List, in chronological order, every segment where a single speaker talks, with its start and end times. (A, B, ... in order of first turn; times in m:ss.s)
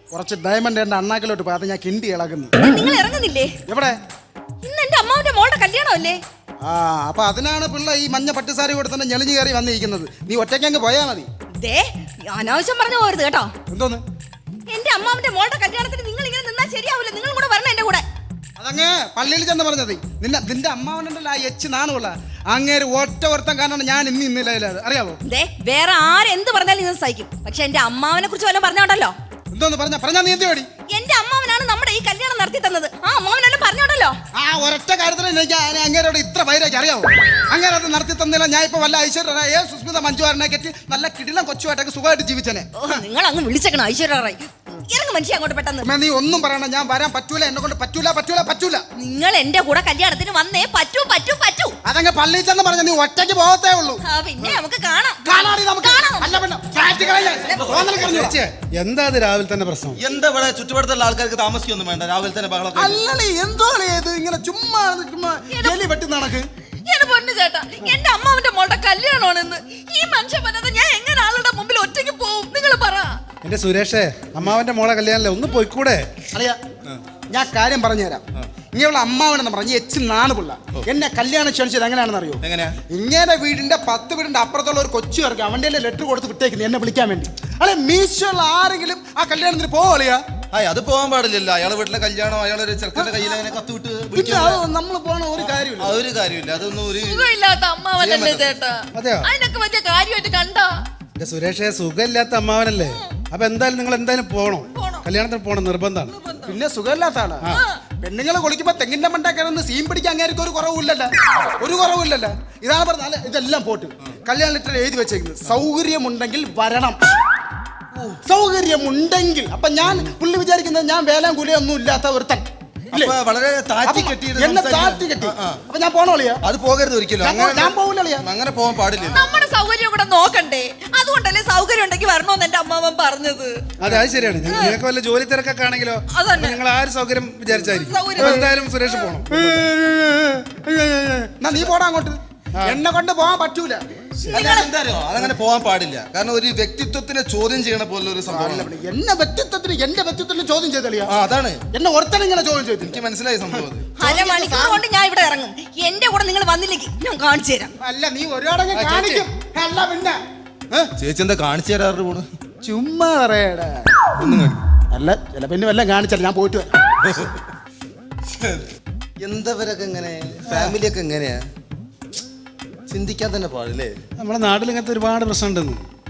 0:00.1-0:02.5 A
0:02.6-0:03.5 B
0:03.7-0:04.0 A
0:04.6-0:06.2 B
0:06.6-0:11.3 A
0:11.6-0:13.5 B
0:13.7-0:14.0 A
0:14.7-0:18.0 B
0:18.6-0:25.2 A
0:25.2-0:29.1 B
0:29.5-0:30.7 A
0:30.9-0:34.2 B
0:34.3-0:43.0 A
0:42.8-0:45.9 B
0:45.8-0:48.8 A
0:49.0-0:51.7 B
0:51.8-0:54.0 A
0:54.0-0:56.4 B
0:55.2-0:58.4 A
0:57.3-0:58.0 B
0:57.9-1:00.0 C
1:00.0-1:03.1 D
1:02.7-1:06.5 A
1:05.5-1:05.8 B
1:06.8-1:13.2 B
1:13.4-1:16.1 C
1:16.3-1:16.6 A
1:17.3-1:30.2 A
1:22.4-1:22.8 D
1:30.5-1:34.6 D
1:34.1-1:36.0 A
1:35.4-1:37.3 D
1:37.0-1:40.8 B
1:38.0-1:38.5 D
1:38.9-1:39.3 C
1:41.2-1:46.1 C
1:44.8-1:45.0 B
1:46.2-1:46.5 B
1:46.4-1:47.5 A
1:48.0-1:57.0 A
1:57.9-1:58.2 D
1:58.2-2:03.2 A
2:02.9-2:05.6 D
2:03.8-2:06.4 A
2:06.4-2:09.4 D
2:07.2-2:08.3 A
2:09.1-2:13.5 B
2:13.8-2:19.6 C
2:13.8-2:14.5 D
2:14.5-2:14.8 B
2:16.1-2:16.6 B
2:17.5-2:19.1 B
2:18.2-2:18.5 A
2:19.3-2:24.5 A
2:24.2-2:28.7 D
2:24.3-2:24.7 B
2:28.3-2:31.1 A
2:31.0-2:31.6 D
2:31.7-2:33.0 A
2:32.8-2:33.9 D
2:34.0-2:37.7 B
2:34.0-2:34.8 A
2:37.8-2:40.2 A
2:38.7-2:39.3 C
2:41.0-2:42.3 D
2:42.6-2:44.1 A
2:44.2-2:44.6 D
2:44.9-2:46.7 A
2:47.0-2:47.4 D
2:48.3-2:48.7 D
2:49.2-2:51.4 D
2:52.9-2:53.9 D
2:54.2-2:55.8 C